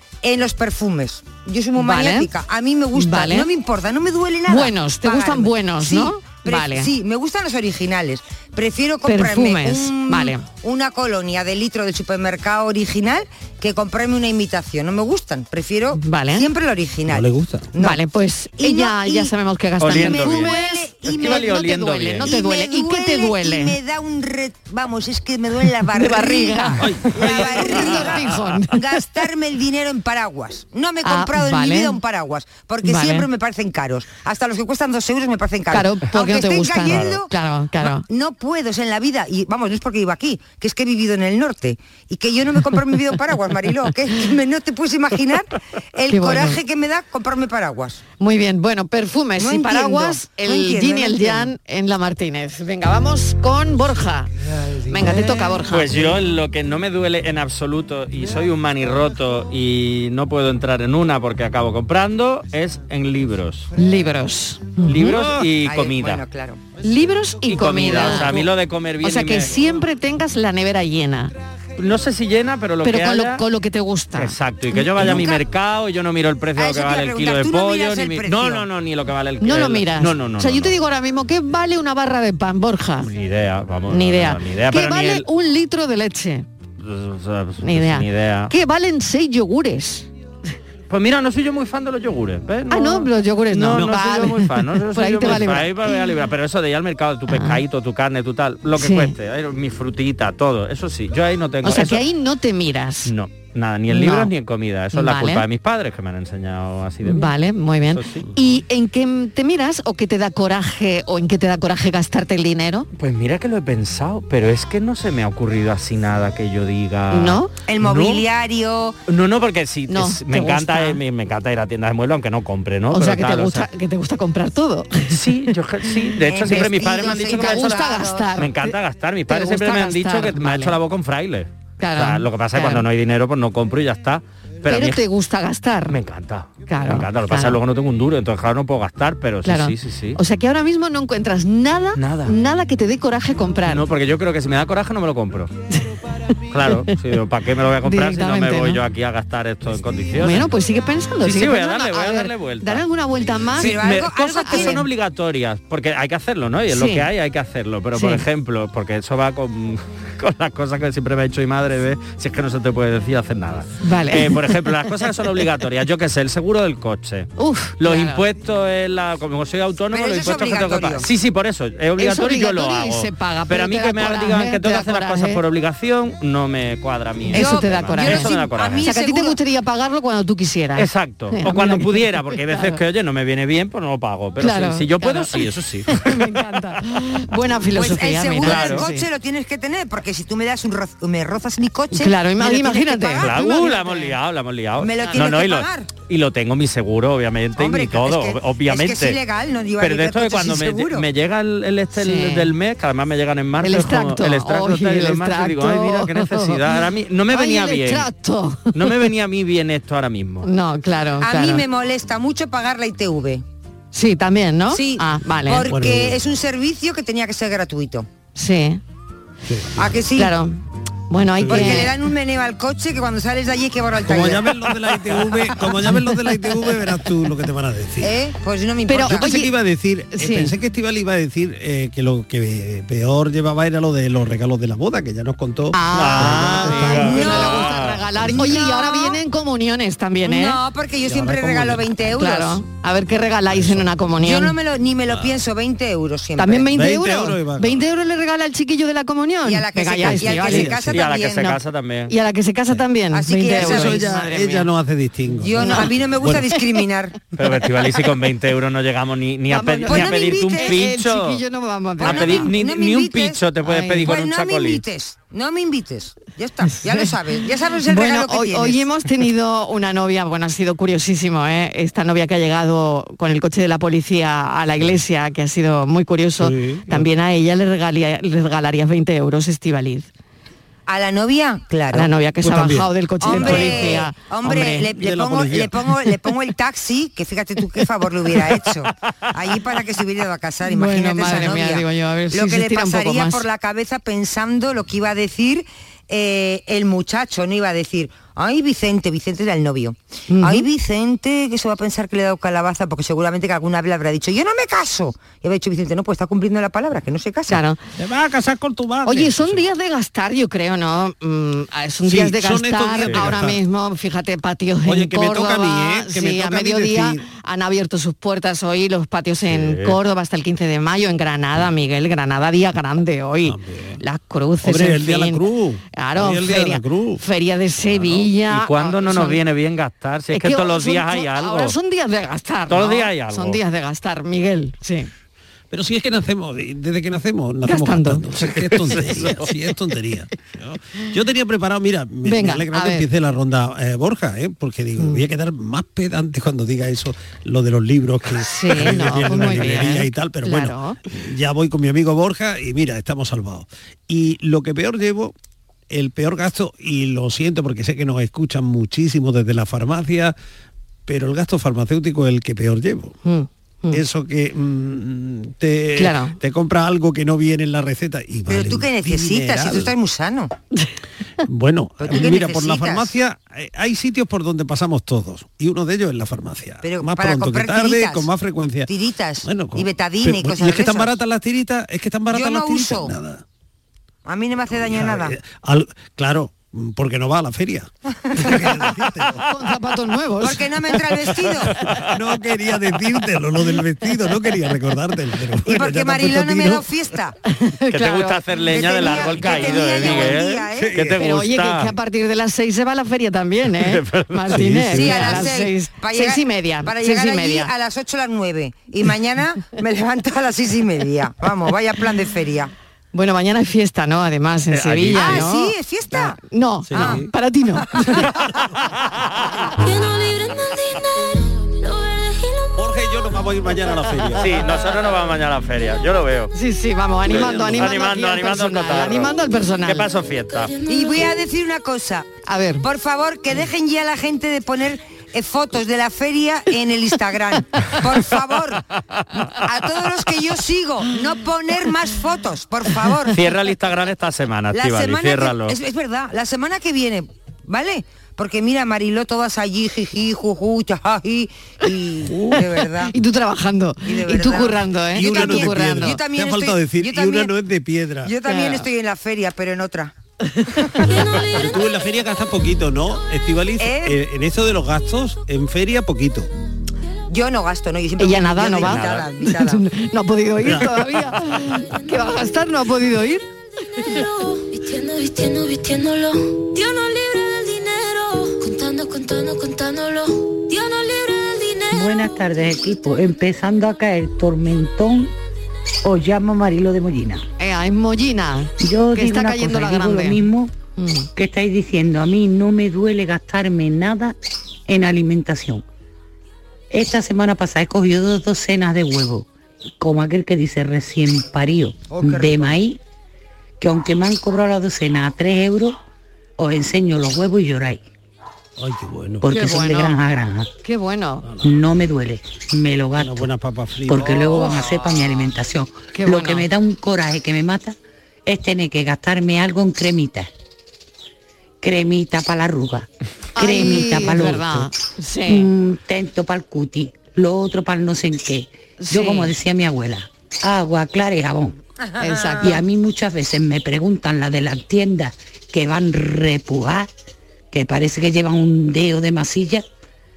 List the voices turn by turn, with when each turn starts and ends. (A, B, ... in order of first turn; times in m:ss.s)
0:00.2-0:18.0 A
0:01.8-0:02.3 B
0:03.0-0:03.5 B
0:04.5-0:06.9 B
0:09.0-0:10.4 B
0:16.0-0:16.5 B
0:17.1-0:17.7 C
0:17.8-0:23.8 B
0:18.6-0:19.3 A
0:19.8-0:22.3 D
0:19.9-0:21.6 A
0:22.2-0:28.2 A
0:25.9-0:28.8 B
0:26.8-0:28.2 C
0:28.7-0:37.3 A
0:31.0-0:32.0 B
0:32.8-0:33.3 B
0:35.7-0:38.0 B
0:38.1-0:48.0 A
0:46.1-0:46.6 B
0:48.2-0:54.3 B
0:49.4-0:51.5 A
0:54.6-0:55.6 C
0:54.9-0:55.9 B
0:55.7-1:03.7 D
1:03.8-1:05.2 B
1:04.8-1:06.2 D
1:05.0-1:05.5 C
1:05.6-1:06.6 A
1:06.8-1:08.4 B
1:07.5-1:09.5 D
1:09.0-1:11.3 B
1:11.8-1:13.4 D
1:12.8-1:15.3 B
1:14.2-1:20.7 D
1:15.0-1:15.4 A
1:16.6-1:18.6 A
1:19.4-1:23.1 B
1:23.0-1:25.2 D
1:23.9-1:26.4 B
1:26.8-1:28.5 D
1:27.6-1:30.1 B
1:30.9-1:42.0 D
1:32.7-1:36.1 B
1:37.3-1:37.6 B
1:38.8-1:39.1 B
1:41.6-1:43.1 B
1:43.1-1:47.3 D
1:43.9-1:44.3 B
1:44.9-1:45.4 B
1:47.0-1:52.9 B
1:47.9-1:48.2 D
1:52.9-1:58.2 D
1:57.1-1:57.5 B
1:57.7-1:59.0 A
1:59.1-2:03.7 D
1:59.9-2:01.0 B
2:02.9-2:05.2 B
2:05.1-2:15.0 D
2:06.3-2:08.3 A
2:06.5-2:08.7 B
2:09.3-2:10.8 B
2:11.8-2:12.8 B
2:14.7-2:16.0 B
2:15.9-2:20.2 D
2:16.7-2:17.6 B
2:19.4-2:23.8 B
2:22.0-2:22.3 D
2:23.7-2:25.5 D
2:26.5-2:30.5 D
2:27.8-2:28.8 B
2:30.2-2:34.8 B
2:31.2-2:32.8 D
2:33.6-2:34.8 A
2:33.6-2:58.9 D
2:36.7-2:37.0 B
2:37.9-2:38.2 B
2:43.8-2:44.6 B
2:47.4-2:48.2 B
2:49.9-2:51.0 A
2:52.0-2:55.4 B
2:57.3-3:02.8 B
2:57.3-2:59.4 A
3:00.8-3:06.0 D
3:04.4-3:09.0 B
3:07.7-3:13.7 A
3:08.4-3:08.9 D
3:11.9-3:14.1 B
3:13.2-3:19.2 D
3:14.8-3:15.9 A
3:17.6-3:21.0 A
3:19.8-3:28.1 D
3:22.0-3:22.5 B
3:23.6-3:26.8 B
3:27.3-3:29.1 B
3:28.7-3:30.5 D
3:30.4-3:31.6 B
3:31.2-3:33.4 A
3:33.9-3:35.6 B
3:34.7-3:38.1 A
3:35.6-3:36.2 C
3:38.3-3:38.8 B
3:39.5-3:40.0 C
3:39.8-3:40.3 A
3:40.2-3:40.6 B
3:41.1-3:41.9 B
3:41.4-3:41.9 C
3:41.4-3:44.5 A
3:44.0-3:48.2 C
3:48.0-3:49.4 A
3:48.9-3:49.5 B
3:49.0-3:57.2 C
3:50.1-3:50.5 B
3:55.7-4:00.6 B
3:55.9-3:58.1 D
3:57.0-3:59.2 A
4:00.2-4:02.6 A
4:01.0-4:02.2 C
4:02.2-4:04.6 B
4:03.5-4:03.9 C
4:04.2-4:06.7 A
4:05.1-4:05.4 D
4:06.4-4:10.8 B
4:06.7-4:07.8 C
4:09.4-4:11.6 A
4:10.0-4:11.0 C
4:10.8-4:12.1 D
4:12.1-4:14.7 B
4:13.1-4:14.0 A
4:13.5-4:16.4 C
4:15.4-4:17.2 A
4:17.3-4:21.4 D
4:19.5-4:22.5 B
4:19.9-4:20.8 A
4:22.0-4:23.4 A
4:22.0-4:24.8 D
4:23.6-4:24.1 B
4:24.0-4:28.8 A
4:27.9-4:40.1 B
4:36.4-4:37.1 C
4:40.9-4:42.1 A
4:41.9-4:44.9 B
4:42.4-4:46.0 C
4:43.2-5:07.6 A
4:50.7-4:53.4 B
5:00.3-5:00.6 B
5:07.5-5:07.8 B
5:08.0-5:09.6 C
5:09.0-5:25.4 B
5:12.0-5:13.6 C
5:14.8-5:17.2 C
5:19.5-5:20.0 D
5:23.4-5:24.0 C
5:24.6-5:27.2 C
5:25.9-5:29.4 B
5:27.9-5:31.7 D
5:30.3-5:35.1 B
5:32.7-5:33.6 D
5:35.7-5:55.3 C
5:37.6-5:38.2 B
5:38.5-5:39.5 D
5:42.2-5:43.0 B
5:48.4-5:51.0 B
5:55.9-6:00.3 C
6:01.1-6:03.2 C
6:03.2-6:04.0 B
6:03.9-6:09.9 C
6:06.0-6:06.4 B
6:08.5-6:10.5 A
6:11.4-6:18.9 C
6:12.0-6:13.1 A
6:16.8-6:18.3 A
6:18.9-6:21.2 A
6:19.4-6:23.4 C
6:22.3-6:23.1 A
6:24.2-6:25.3 A
6:24.7-6:29.4 C
6:29.4-6:30.6 B
6:30.4-6:31.7 A
6:32.1-6:36.9 C
6:35.6-6:37.3 A
6:37.5-6:38.4 B
6:37.9-6:41.9 D
6:38.7-6:41.0 A
6:39.0-6:40.1 B
6:40.1-6:41.2 C
6:41.2-6:47.7 B
6:43.7-6:44.5 D
6:44.5-6:45.4 C
6:44.9-6:52.7 A
6:53.1-6:58.3 B
6:54.7-6:55.5 D
6:55.1-6:56.4 A
6:56.9-6:57.3 C
6:59.0-6:59.5 D
6:59.8-7:02.9 E
7:02.8-7:04.7 C
7:04.3-7:06.5 D
7:06.5-7:10.1 B
7:07.3-7:08.0 C
7:07.3-7:10.7 D
7:10.5-7:11.4 E
7:10.9-7:12.3 A
7:12.5-7:12.8 B
7:12.8-7:18.8 A
7:19.6-7:23.4 A
7:23.3-7:25.8 D
7:24.7-7:33.1 A
7:33.1-7:36.2 B
7:34.0-7:37.5 A
7:35.1-7:38.3 C
7:38.2-7:40.1 A
7:38.4-7:38.8 B
7:40.5-7:40.9 B
7:41.0-7:42.0 E
7:41.1-7:46.5 C
7:43.8-7:44.2 A
7:47.3-7:49.8 A
7:48.2-7:53.4 B
7:48.8-7:49.3 D
7:50.6-7:51.3 C
7:51.7-7:52.5 E
7:54.0-8:03.3 E
8:01.9-8:05.3 F
8:06.0-8:07.4 F
8:07.6-8:10.4 B
8:08.8-8:10.7 F
8:11.0-8:11.3 B
8:11.4-8:14.4 F
8:14.9-8:15.8 F
8:16.9-8:23.0 F
8:22.1-8:22.7 A
8:23.8-8:26.0 F
8:26.6-8:28.0 F
8:28.8-8:29.5 C
8:29.4-8:30.7 F
8:29.4-8:30.2 B
8:30.8-8:31.4 B
8:31.6-8:33.5 F
8:33.2-8:34.8 C
8:34.1-8:40.5 F
8:36.1-8:36.7 B
8:41.8-8:44.9 F
8:43.6-8:45.7 B
8:45.5-8:51.7 F
8:49.0-8:49.5 B
8:52.0-8:52.8 A
8:52.2-8:52.8 B
8:52.6-8:57.1 F
8:57.7-8:59.8 F